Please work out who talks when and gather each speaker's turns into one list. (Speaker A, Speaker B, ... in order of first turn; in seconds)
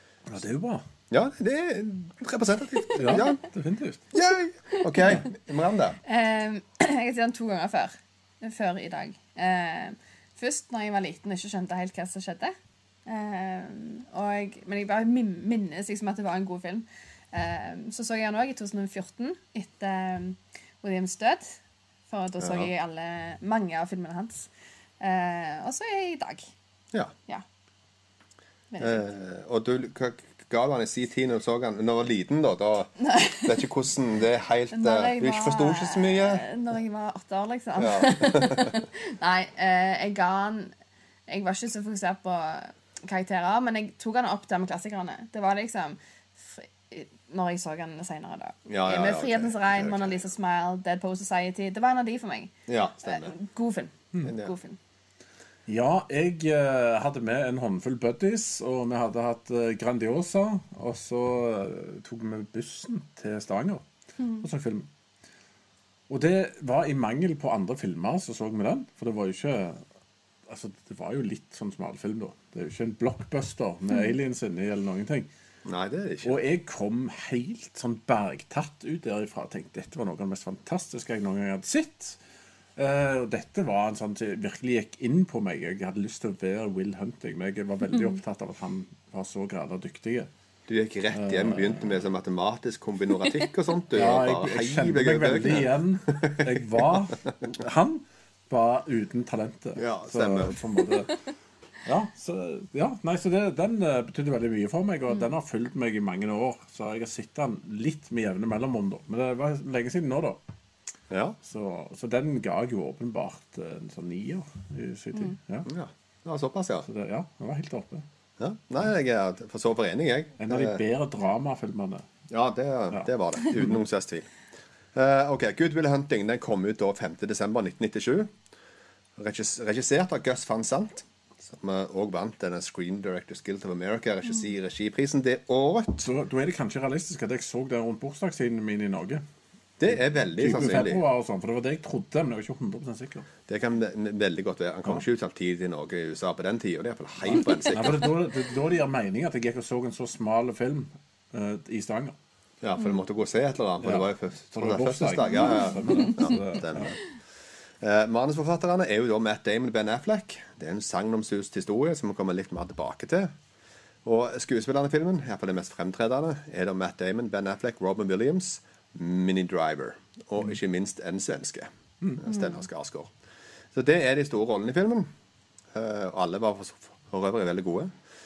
Speaker A: 0.3-0.8, 3.0-4.0, 55.7-63.8, 64.4-64.9, 66.1-69.8, 70.5-75.3, 76.2-82.2, 82.8-90.3, 91.1-92.0, 93.9-101.1, 101.8-110.4, 111.4-115.7, 116.8-118.0, 120.4-122.1, 136.0-139.2, 140.4-143.3, 147.3-152.2, 153.8-157.0
Speaker B: 1.1-3.4, 4.1-6.0, 22.4-22.7, 28.8-36.5, 37.8-38.7, 48.7-50.2, 52.7-53.3, 54.2-54.5, 75.7-76.4, 90.7-96.6, 99.8-100.6, 111.1-111.4, 115.7-116.9, 118.4-120.8, 122.3-124.3, 125.0-128.3, 129.2-136.1, 139.8-141.0, 143.5-148.1, 152.6-157.0, 157.8-163.3, 164.1-173.1, 173.7-175.1, 175.7-177.9
Speaker C: 6.1-12.5, 13.1-21.6, 22.1-24.5, 25.0-26.5, 28.7-29.0, 33.0-33.6, 34.7-40.7, 41.3-52.5, 53.0-54.8